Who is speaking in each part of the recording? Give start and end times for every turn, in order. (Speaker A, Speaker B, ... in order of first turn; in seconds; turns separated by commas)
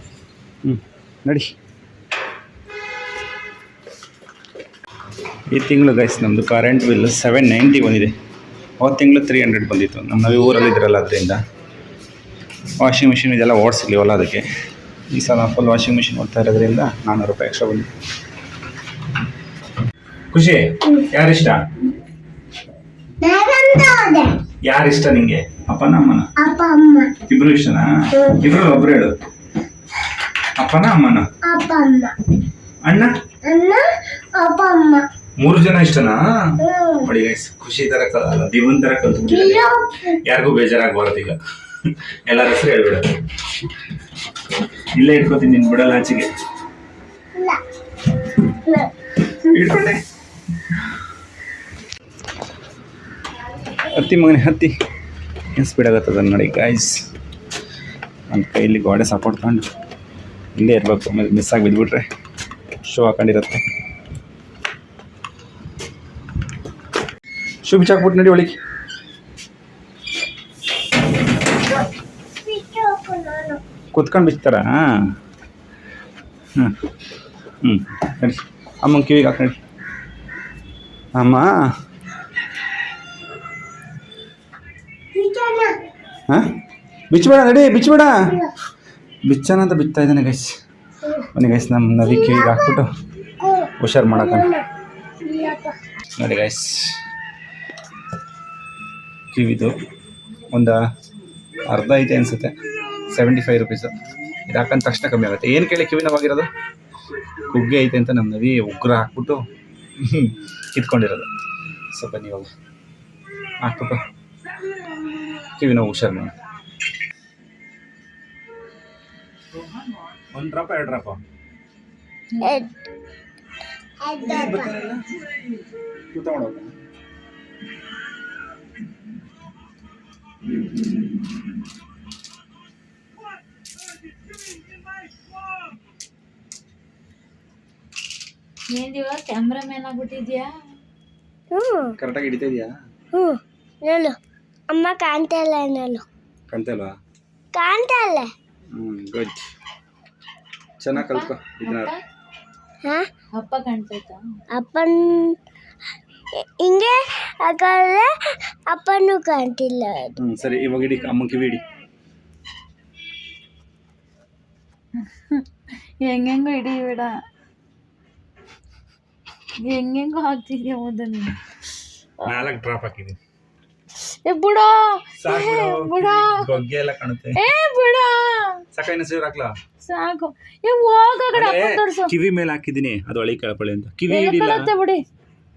Speaker A: 0.6-1.5, Speaker A: 5.5-8.1, Speaker A: 8.8-11.4, Speaker A: 12.8-14.5, Speaker A: 15.1-17.9, Speaker A: 20.3-21.6, Speaker B: 23.2-24.4, Speaker A: 24.6-26.3, Speaker B: 26.4-27.1, Speaker A: 27.3-29.1, Speaker A: 30.6-31.3, Speaker B: 31.4-32.1, Speaker A: 32.9-33.1, Speaker B: 33.4-35.0, Speaker A: 35.4-36.2, Speaker B: 36.6-37.1, Speaker A: 37.0-39.7, Speaker B: 39.3-40.2, Speaker A: 40.2-43.1, Speaker A: 45.0-46.3, Speaker B: 47.4-47.6, Speaker B: 48.5-48.9, Speaker A: 49.4-50.0, Speaker A: 53.9-54.7, Speaker A: 55.5-57.0, Speaker A: 58.3-59.7, Speaker A: 60.6-62.1, Speaker A: 62.9-63.6, Speaker A: 67.6-68.6, Speaker B: 72.4-73.6, Speaker A: 73.9-75.1, Speaker A: 77.6-79.6, Speaker A: 81.2-81.5, Speaker B: 85.1-85.8, Speaker A: 87.1-88.3, Speaker A: 89.3-90.5, Speaker A: 91.3-92.9, Speaker B: 92.1-92.7, Speaker B: 93.4-94.6, Speaker A: 93.8-94.5, Speaker B: 95.2-95.8, Speaker A: 96.2-97.0, Speaker A: 99.3-99.8, Speaker A: 100.5-100.8, Speaker A: 101.7-102.6, Speaker A: 103.1-103.9, Speaker A: 104.5-106.5, Speaker A: 107.5-109.4, Speaker A: 110.0-111.3, Speaker A: 111.9-112.5, Speaker A: 113.6-114.0, Speaker A: 115.6-116.3, Speaker A: 120.3-121.2, Speaker C: 122.3-122.7, Speaker B: 122.4-122.7, Speaker B: 124.0-124.8, Speaker A: 124.2-125.3, Speaker A: 126.1-126.7, Speaker C: 138.7-140.6, Speaker B: 141.5-141.9, Speaker A: 142.0-142.7, Speaker B: 143.1-144.2, Speaker B: 144.7-146.1, Speaker A: 146.5-146.9, Speaker B: 147.5-148.3, Speaker A: 148.7-149.4, Speaker A: 150.8-151.9, Speaker C: 150.9-152.0, Speaker C: 153.3-154.4, Speaker B: 154.5-155.4, Speaker B: 156.4-158.1, Speaker B: 158.7-160.2, Speaker A: 160.2-161.6, Speaker C: 165.0-165.5, Speaker C: 166.0-167.2, Speaker C: 169.6-171.4, Speaker A: 172.2-173.2, Speaker C: 174.0-176.6, Speaker A: 175.2-177.4, Speaker C: 177.3-178.6, Speaker A: 178.7-179.5, Speaker C: 179.8-182.1, Speaker A: 181.3-184.7, Speaker C: 184.1-185.0